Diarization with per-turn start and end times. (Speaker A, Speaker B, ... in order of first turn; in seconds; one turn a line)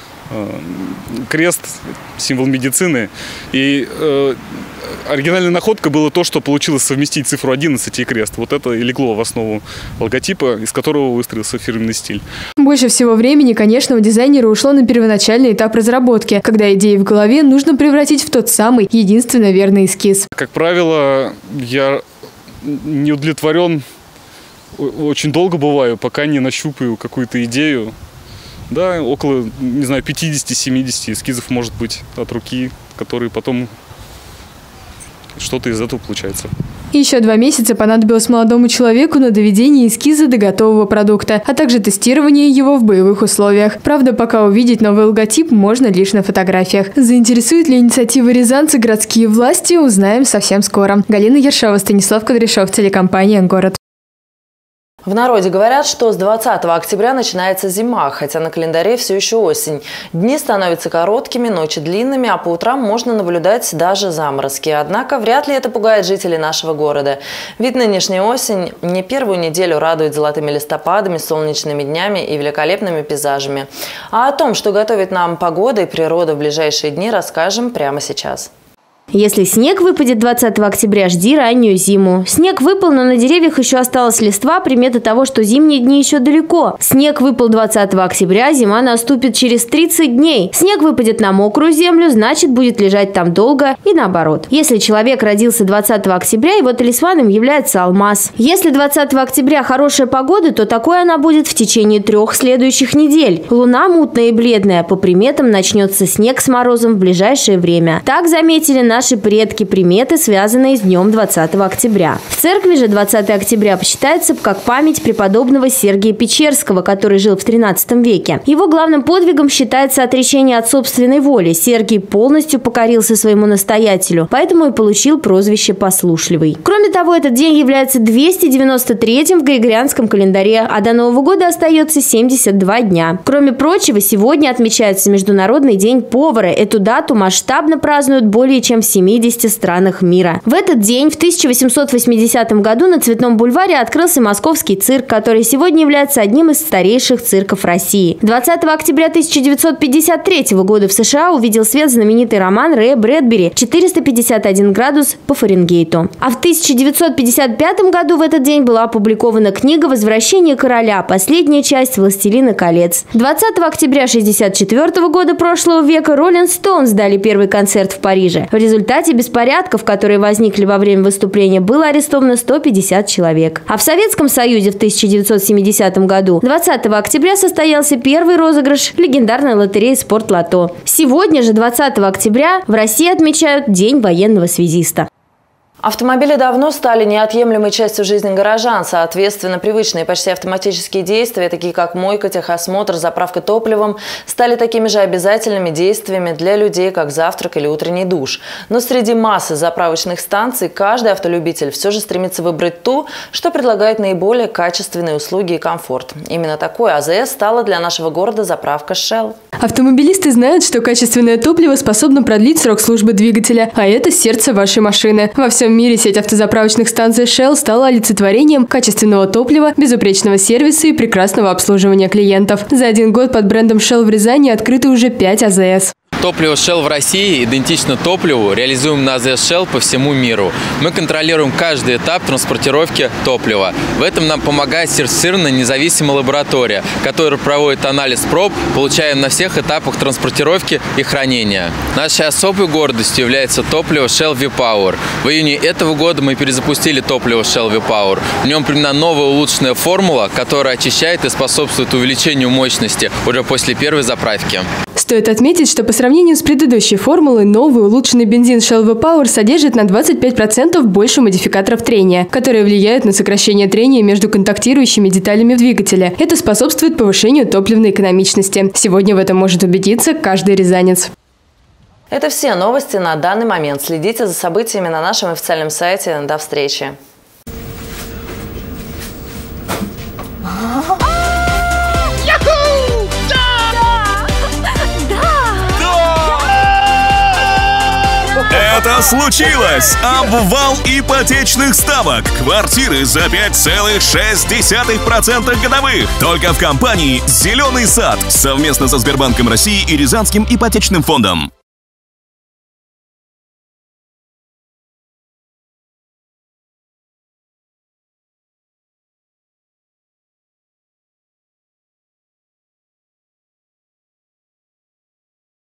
Speaker A: 0.3-4.4
Speaker A: 5.0-12.2
Speaker B: 12.6-20.3
Speaker A: 20.3-22.0
Speaker A: 22.6-23.8
Speaker A: 24.8-27.9
Speaker A: 28.7-33.7
Speaker A: 35.4-36.5
Speaker B: 36.9-53.8
Speaker C: 55.0-78.5
Speaker D: 79.1-185.1
Speaker C: 185.8-209.3
Speaker B: 209.6-225.9
Speaker E: 226.2-254.7
Speaker B: 254.9-271.1
Speaker C: 272.1-276.9
Speaker F: 288.5-301.5